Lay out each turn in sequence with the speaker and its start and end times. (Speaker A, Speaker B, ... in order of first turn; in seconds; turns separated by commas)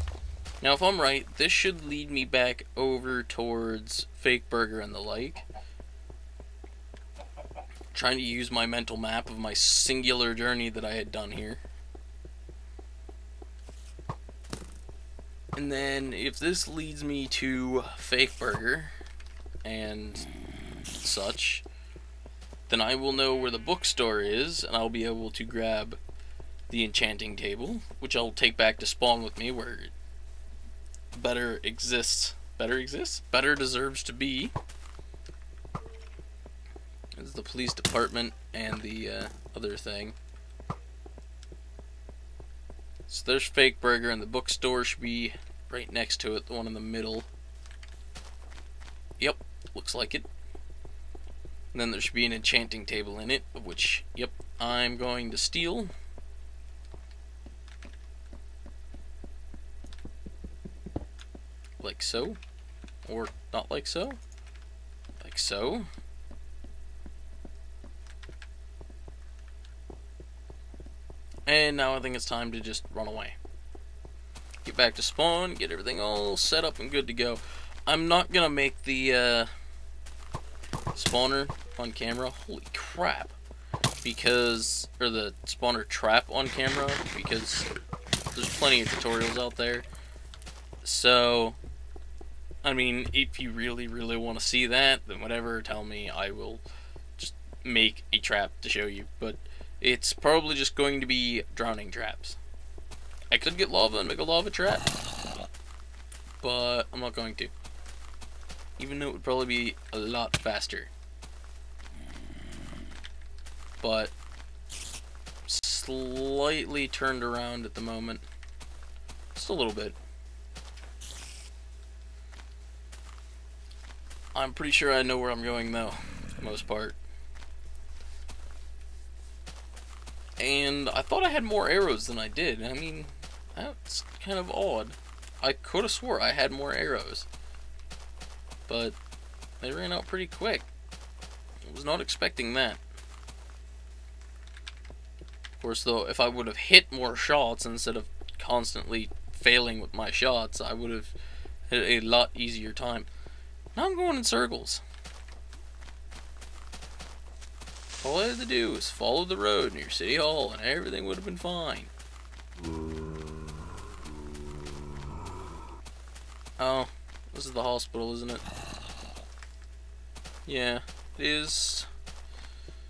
Speaker A: 0.6-5.5, Speaker A: 7.9-11.6, Speaker A: 15.6-18.9, Speaker A: 19.6-20.3, Speaker A: 21.0-21.6, Speaker A: 22.7-26.0, Speaker A: 26.7-29.9, Speaker A: 31.1-34.5, Speaker A: 37.2-40.2, Speaker A: 43.1-47.3, Speaker A: 49.2-50.3, Speaker A: 51.7-55.9, Speaker A: 61.8-62.4, Speaker A: 63.0-64.2, Speaker A: 65.2-65.9, Speaker A: 71.5-73.4, Speaker A: 74.6-79.5, Speaker A: 81.0-83.4, Speaker A: 84.0-87.7, Speaker A: 88.3-89.9, Speaker A: 90.8-91.6, Speaker A: 92.6-96.6, Speaker A: 97.2-102.4, Speaker A: 103.3-104.9, Speaker A: 106.4-107.5, Speaker A: 108.8-110.9, Speaker A: 113.8-114.1, Speaker A: 115.5-118.2, Speaker A: 119.3-120.0, Speaker A: 124.3-127.0, Speaker A: 130.4-137.3, Speaker A: 138.7-139.0, Speaker A: 139.6-140.7, Speaker A: 141.7-142.8, Speaker A: 145.6-151.2, Speaker A: 151.7-153.1, Speaker A: 153.8-154.8, Speaker A: 158.0-161.9, Speaker A: 166.6-168.4, Speaker A: 170.5-171.9